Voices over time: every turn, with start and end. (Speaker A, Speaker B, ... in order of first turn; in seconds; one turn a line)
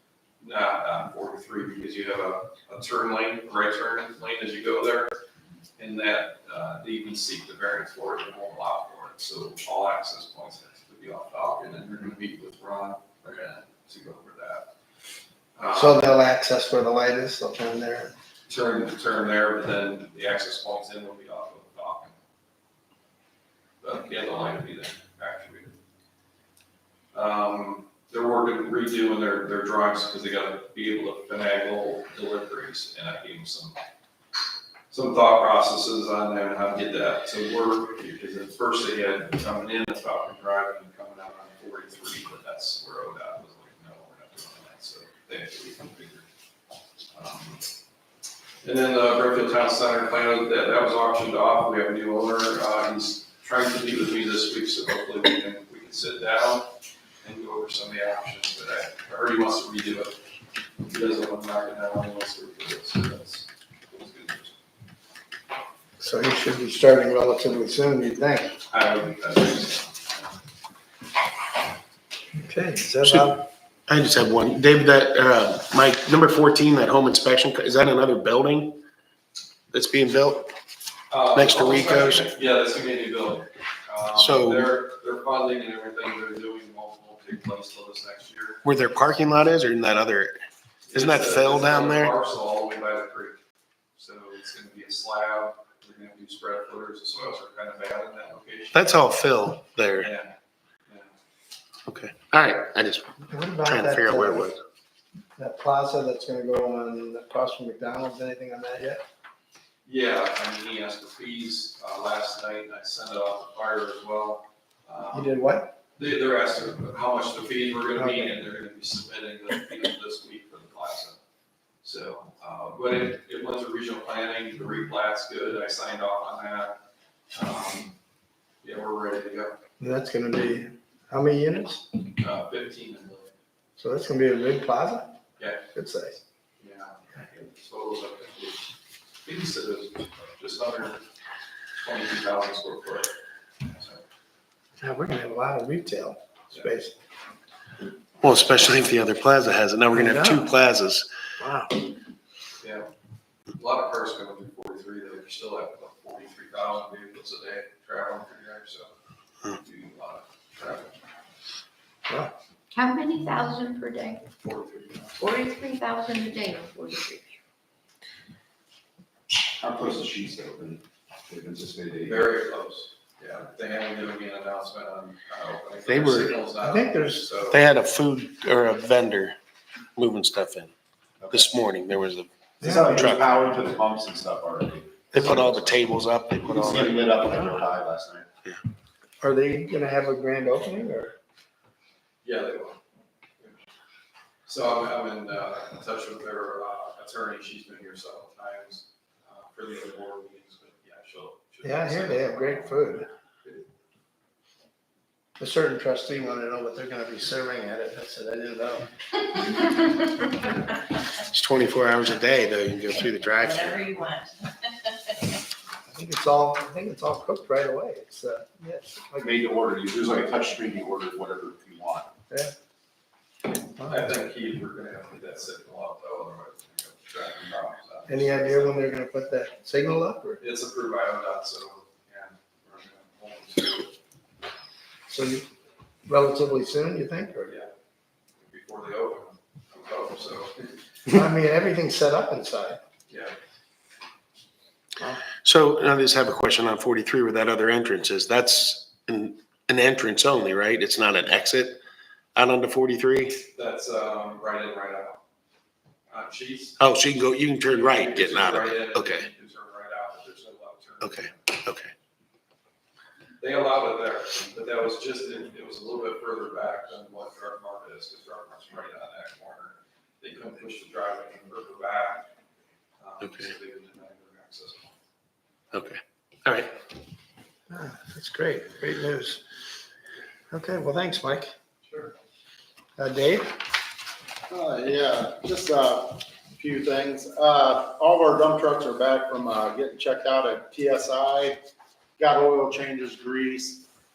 Speaker A: 0.4-5.2
Speaker A: 5.8-14.7
Speaker A: 15.6-16.1
Speaker B: 15.7-18.1
Speaker A: 18.5-22.1
Speaker A: 23.8-25.8
Speaker A: 27.1-33.8
Speaker A: 34.9-46.2
Speaker A: 47.1-47.6
Speaker A: 48.6-56.7
Speaker A: 57.2-60.2
Speaker A: 60.8-64.5
Speaker B: 66.0-68.6
Speaker A: 68.7-70.3
Speaker B: 72.3-73.4
Speaker C: 73.9-78.8
Speaker C: 79.7-80.5
Speaker A: 81.1-88.6
Speaker C: 81.3-82.3
Speaker C: 84.2-84.7
Speaker C: 88.6-90.4
Speaker A: 90.9-93.4
Speaker C: 90.9-92.1
Speaker A: 94.0-98.8
Speaker C: 98.7-100.1
Speaker A: 100.0-100.3
Speaker A: 100.9-101.1
Speaker C: 101.9-104.6
Speaker B: 103.3-104.5
Speaker B: 105.4-109.0
Speaker A: 109.8-115.3
Speaker B: 115.1-115.7
Speaker A: 116.0-121.2
Speaker B: 118.0-118.4
Speaker A: 121.8-126.7
Speaker A: 127.3-127.9
Speaker A: 128.6-129.6
Speaker B: 129.8-131.8
Speaker A: 132.2-133.3
Speaker B: 133.8-135.2
Speaker B: 135.7-136.2
Speaker A: 136.6-138.7
Speaker A: 139.2-141.0
Speaker A: 141.8-144.0
Speaker B: 144.8-146.9
Speaker C: 148.2-151.1
Speaker B: 149.9-150.5
Speaker B: 151.4-151.8
Speaker A: 152.6-152.9
Speaker A: 153.6-158.9
Speaker A: 159.4-160.9
Speaker D: 162.7-164.2
Speaker A: 164.4-165.3
Speaker D: 165.2-167.3
Speaker E: 169.6-172.3
Speaker A: 172.0-177.6
Speaker C: 175.9-176.3
Speaker B: 176.6-177.3
Speaker C: 177.5-179.3
Speaker C: 179.9-180.7
Speaker E: 181.2-181.5
Speaker C: 181.3-183.4
Speaker E: 182.6-185.8
Speaker C: 185.1-187.1
Speaker E: 186.4-188.3
Speaker B: 189.2-191.1
Speaker A: 192.2-192.8
Speaker A: 194.5-203.7
Speaker B: 201.6-203.1
Speaker B: 205.4-208.9
Speaker C: 211.3-213.9
Speaker B: 215.9-219.5
Speaker E: 219.2-222.1
Speaker A: 223.8-228.9
Speaker B: 223.8-224.1
Speaker B: 228.1-230.4
Speaker A: 230.4-233.9
Speaker B: 235.1-235.4
Speaker B: 236.1-237.6
Speaker A: 237.5-237.7
Speaker A: 238.4-240.6
Speaker B: 241.1-242.8
Speaker A: 243.1-243.3
Speaker C: 245.4-251.8
Speaker C: 252.3-253.4
Speaker A: 253.5-255.2
Speaker A: 256.1-256.8
Speaker C: 256.8-259.3
Speaker A: 257.7-261.5
Speaker C: 261.0-261.9
Speaker A: 263.4-272.3
Speaker A: 273.0-274.9
Speaker C: 273.2-273.5
Speaker C: 275.7-276.7
Speaker B: 277.7-279.4
Speaker B: 280.5-281.5
Speaker B: 283.0-283.5
Speaker F: 284.5-291.6
Speaker F: 292.2-293.8